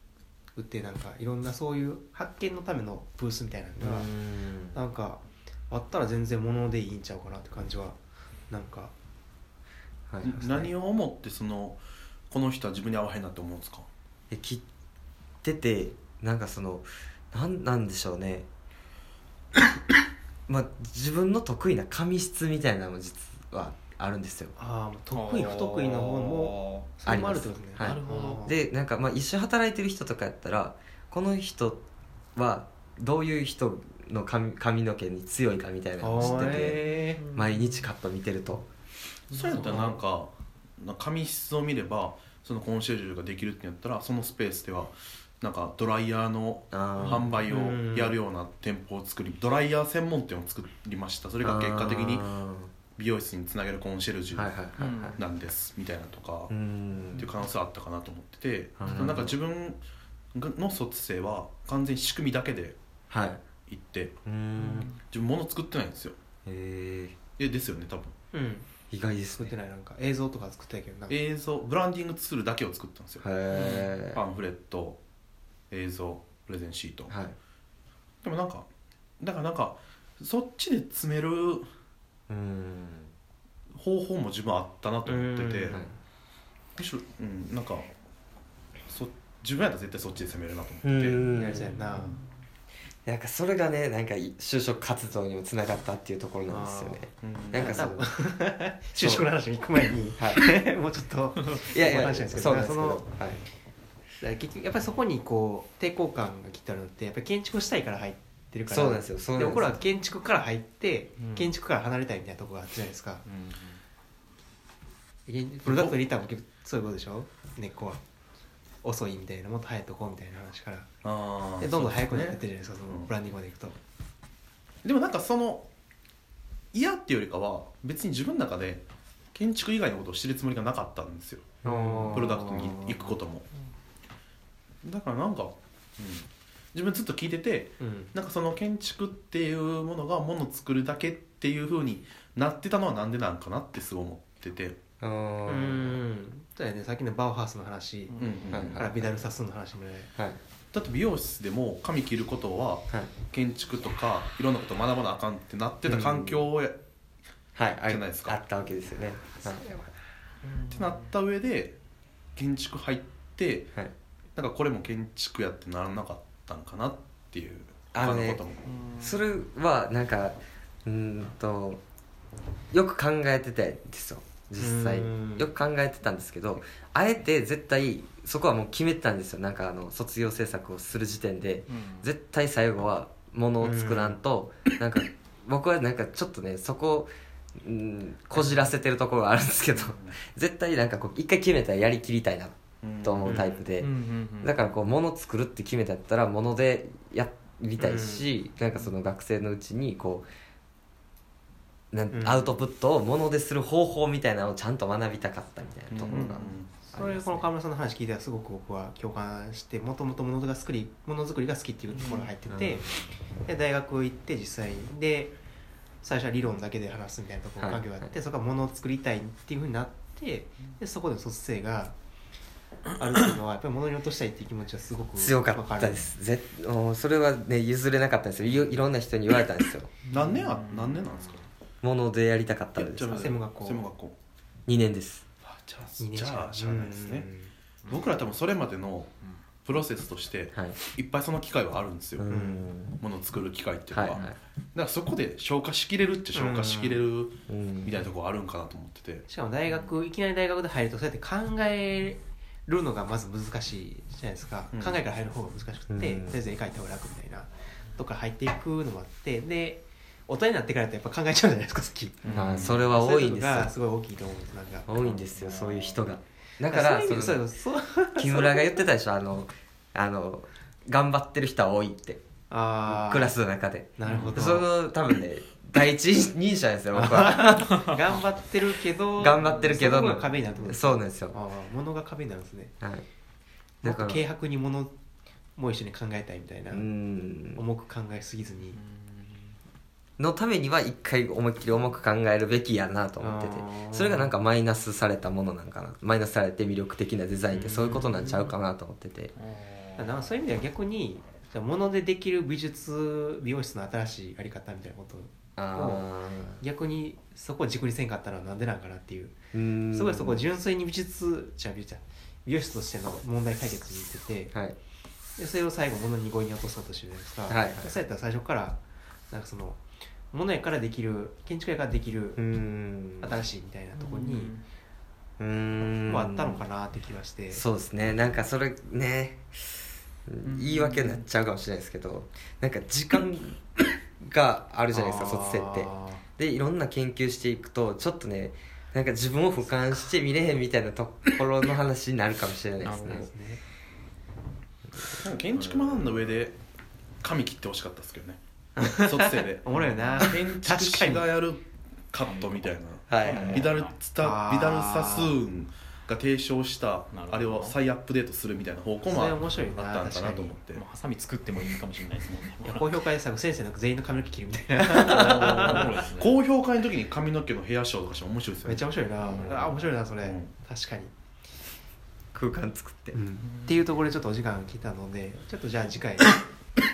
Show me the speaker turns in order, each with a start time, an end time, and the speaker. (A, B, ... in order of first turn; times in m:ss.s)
0:00.6-0:04.1 A
0:03.8-0:04.8 B
0:04.7-0:08.0 A
0:08.5-0:08.9 A
0:10.1-0:10.4 B
0:10.2-0:13.9 C
0:10.4-0:10.7 A
0:14.3-0:14.6 B
0:15.4-0:18.5 B
0:20.5-0:24.5 B
0:24.6-0:28.6 A
0:25.1-0:26.9 D
0:27.0-0:31.8 B
0:27.8-0:28.4 C
0:32.4-0:38.7 B
0:36.0-0:37.2 A
0:36.7-0:37.4 D
0:39.3-0:52.3 C
0:39.3-0:39.8 D
0:39.5-0:40.0 A
0:46.7-0:47.4 B
0:47.5-0:48.1 A
0:51.4-0:52.7 B
0:53.0-0:54.6 C
0:54.3-0:55.2 B
0:54.8-0:55.2 D
0:55.2-0:56.5 C
0:56.5-0:57.3 B
0:57.2-0:59.8 C
0:58.8-0:59.4 B
0:58.8-0:59.2 D
1:00.3-1:02.8 C
1:03.1-1:03.4 B
1:03.7-1:04.1 C
1:04.2-1:04.9 B
1:04.6-1:04.9 D
1:05.0-1:06.2 C
1:06.4-1:07.2 B
1:07.4-1:08.1 C
1:08.3-1:08.7 A
1:08.9-1:09.5 B
1:09.4-1:11.2 A
1:11.1-1:15.0 C
1:13.2-1:14.2 B
1:15.7-1:17.1 C
1:17.1-1:17.4 B
1:18.2-1:18.7 C
1:19.2-1:21.7 C
1:22.3-1:23.1 B
1:23.7-1:25.8 C
1:25.1-1:25.9 A
1:26.8-1:27.9 C
1:28.9-1:31.2 C
1:30.8-1:31.8 B
1:31.3-1:32.2 A
1:33.0-1:38.1 B
1:36.5-1:43.1 A
1:37.2-1:37.8 C
1:38.9-1:39.3 B
1:40.2-1:40.5 B
1:41.5-1:43.4 B
1:44.2-1:53.2 A
1:48.7-1:49.8 B
1:51.2-1:51.5 D
1:53.2-1:53.8 D
1:55.3-1:58.0 A
1:55.6-1:56.0 C
1:58.8-2:00.9 A
2:01.0-2:03.1 C
2:01.6-2:03.8 A
2:04.8-2:05.7 C
2:06.7-2:11.5 C
2:11.6-2:12.3 B
2:11.6-2:13.0 A
2:12.1-2:13.4 C
2:14.8-2:24.8 C
2:17.8-2:18.1 A
2:25.0-2:26.0 B
2:25.4-2:30.1 A
2:28.2-2:28.8 C
2:28.5-2:29.1 B
2:30.7-2:36.8 C
2:35.9-2:36.3 B
2:37.5-2:39.7 B
2:37.9-2:38.4 C
2:40.5-2:41.0 D
2:40.7-2:41.8 C
2:42.4-2:43.7 C
2:44.4-2:48.6 C
2:47.9-2:48.4 B
2:48.7-2:49.2 D
2:49.0-2:51.8 B
2:52.7-3:20.3 B
2:54.6-2:55.5 A
3:01.7-3:02.0 D
3:03.6-3:04.2 A
3:09.8-3:10.2 C
3:12.8-3:13.6 C
3:13.3-3:14.5 D
3:17.8-3:18.3 A
3:21.9-3:27.5 B
3:22.1-3:22.6 A
3:25.9-3:26.7 C
3:26.1-3:32.9 A
3:32.5-3:32.9 B
3:33.4-3:35.3 A
3:36.0-3:41.9 A
3:37.6-3:38.1 B
3:43.0-3:46.0 A
3:45.2-3:49.9 B
3:50.0-3:51.1 D
3:50.1-3:51.4 C
3:51.8-3:53.3 B
3:52.8-3:54.2 C
3:53.1-3:53.9 A
3:54.7-3:55.2 B
3:55.4-3:57.3 C
3:56.0-3:57.5 A
3:57.9-3:59.1 C
3:59.6-4:02.3 C
4:00.5-4:00.8 B
4:02.2-4:03.0 B
4:02.3-4:02.7 A
4:03.0-4:09.2 C
4:03.9-4:04.3 B
4:06.3-4:07.0 A
4:07.5-4:08.0 B
4:09.3-4:25.2 A
4:14.7-4:15.0 C
4:15.9-4:16.4 B
4:22.2-4:22.8 D
4:22.3-4:23.7 B
4:24.9-4:27.4 B
4:25.4-4:26.0 D
4:26.7-4:28.7 A
4:28.2-4:32.2 B
4:32.5-4:33.4 A
4:32.8-4:38.0 B
4:34.0-4:34.7 A
4:34.0-4:34.5 D
4:36.9-4:42.7 A
4:39.2-4:41.4 B
4:42.8-4:43.0 B
4:43.8-4:44.9 A
4:43.8-4:44.2 B
4:45.6-4:46.8 A
4:46.7-4:47.6 B
4:47.5-4:48.8 A
4:48.7-4:49.5 D
4:50.2-4:59.3 B
4:53.2-4:54.2 A
4:57.5-4:58.5 D
4:59.4-5:00.1 D
5:00.0-5:06.0 A
5:05.6-5:06.6 B
5:06.6-5:09.3 A
5:09.5-5:10.4 B
5:09.9-5:14.5 A
5:15.4-5:22.4 A
5:17.5-5:18.0 B
5:22.4-5:23.4 B
5:23.2-5:24.5 A
5:24.0-5:24.6 D
5:25.4-5:26.6 B
5:26.1-5:27.6 A
5:27.5-5:29.5 B
5:30.3-5:33.6 B
5:30.4-5:31.2 D
5:34.2-5:43.3 B
5:34.9-5:36.2 A
5:42.8-5:43.2 D
5:42.9-5:43.6 A
5:45.1-5:46.6 C
5:47.2-5:48.4 C
5:48.8-5:49.1 B
5:48.8-5:51.3 A
5:49.0-6:00.8 C
5:49.8-5:50.3 D
5:52.3-5:52.6 D
5:53.1-5:53.6 B
5:53.2-5:53.9 D
5:54.2-5:55.3 A
5:57.1-5:57.8 D
5:59.0-6:00.6 A
6:00.7-6:03.0 D
6:02.6-6:05.8 A
6:04.9-6:10.5 C
6:05.4-6:06.4 D
6:08.6-6:11.1 A
6:12.3-6:13.2 B
6:13.1-6:16.4 A
6:13.5-6:13.8 D